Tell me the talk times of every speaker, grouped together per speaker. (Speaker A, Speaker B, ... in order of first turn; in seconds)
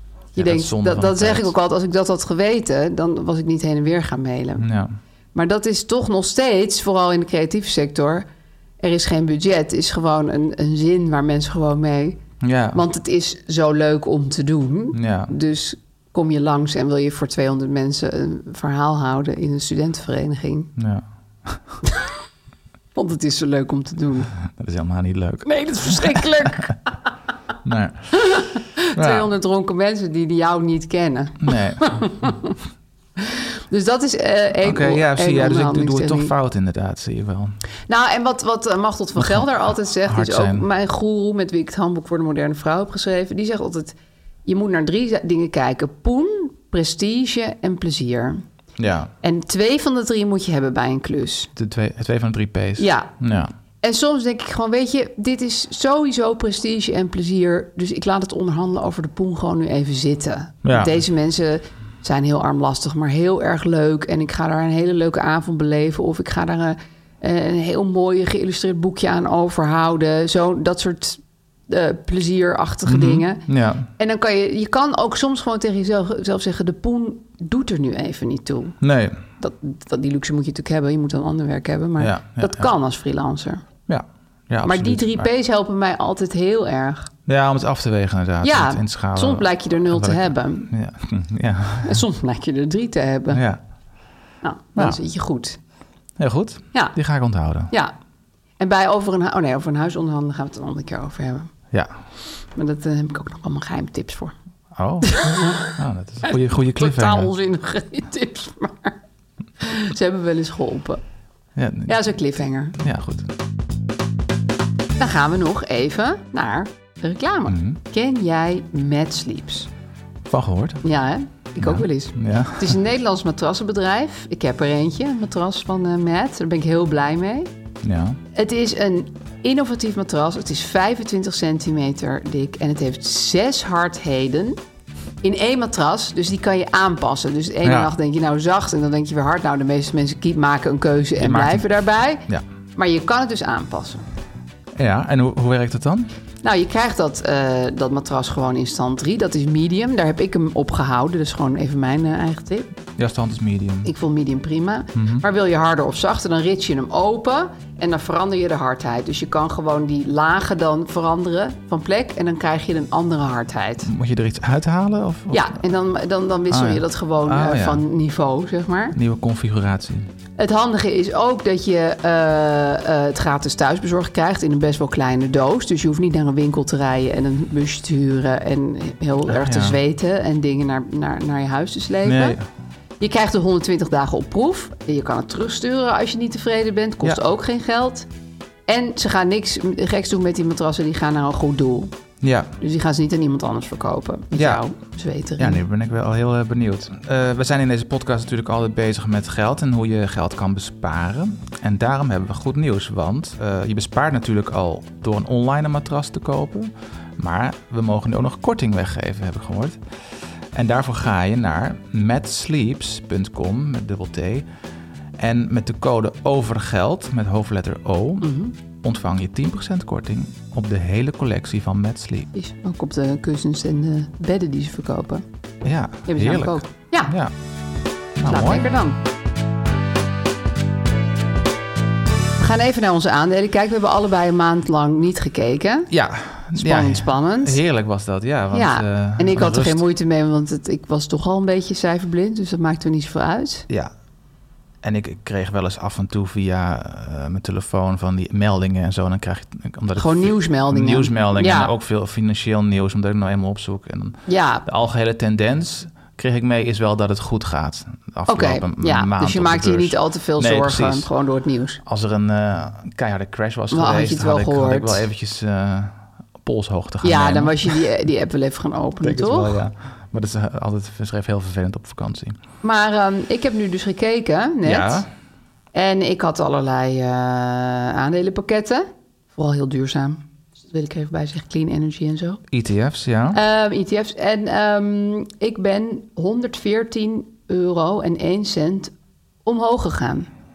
Speaker A: 0.3-1.5, 4.6-4.9, 12.4-12.8, 14.9-15.3, 20.8-21.7, 24.4-26.7, 27.6-28.2, 28.9-29.3, 31.4-32.3, 34.6-37.5, 39.2-40.6, 48.8-49.1, 51.5-53.5, 60.6-61.0, 72.8-73.9, 78.8-79.2, 82.0-82.7, 83.9-85.3, 87.3-92.0, 93.3-93.6, 96.2-97.7, 104.7-107.3, 111.5-111.9, 112.8-113.3, 117.5-117.8, 120.2-120.8, 121.6-122.8, 127.8-128.2, 137.6-137.9, 141.2-141.7, 144.7-146.1, 153.0-153.9, 154.9-155.2, 163.8-165.6, 166.5-167.8, 168.9-170.1, 179.3-179.8, 182.0-182.4, 192.2-192.5, 194.3-194.6, 195.4-214.5, 215.2-222.3, 225.6-227.3, 228.2-228.6, 235.9-239.8, 244.8-261.1, 261.8-267.8, 269.0-272.4, 274.6-275.1, 282.5-283.4
Speaker B: 0.3-4.7, 5.3-8.2, 8.8-12.2, 12.7-20.7, 22.9-24.3, 25.4-26.9, 28.1-32.5, 33.2-36.3, 37.9-43.9, 44.5-48.4, 49.2-51.5, 52.8-53.1, 53.8-73.4, 74.0-78.8, 79.4-83.6, 84.6-87.1, 88.4-90.7, 91.8-93.4, 94.4-95.6, 98.6-101.5, 102.5-104.3, 105.0-105.7, 106.2-109.0, 109.6-111.0, 111.9-112.8, 115.0-119.7, 120.8-127.5, 128.3-134.6, 135.2-144.0, 146.4-152.7, 153.8-163.9, 165.3-168.9, 170.4-182.4, 183.0-188.1, 188.7-191.9, 192.6-195.6, 218.2-218.5, 222.3-225.2, 226.0-227.1, 228.2-229.0, 232.4-235.9, 236.5-237.6, 238.5-243.7, 250.0-251.7, 254.3-254.6, 258.3-261.8, 263.7-265.0, 267.0-269.6, 272.6-275.0, 275.7-282.4, 283.3-288.9, 289.4-290.3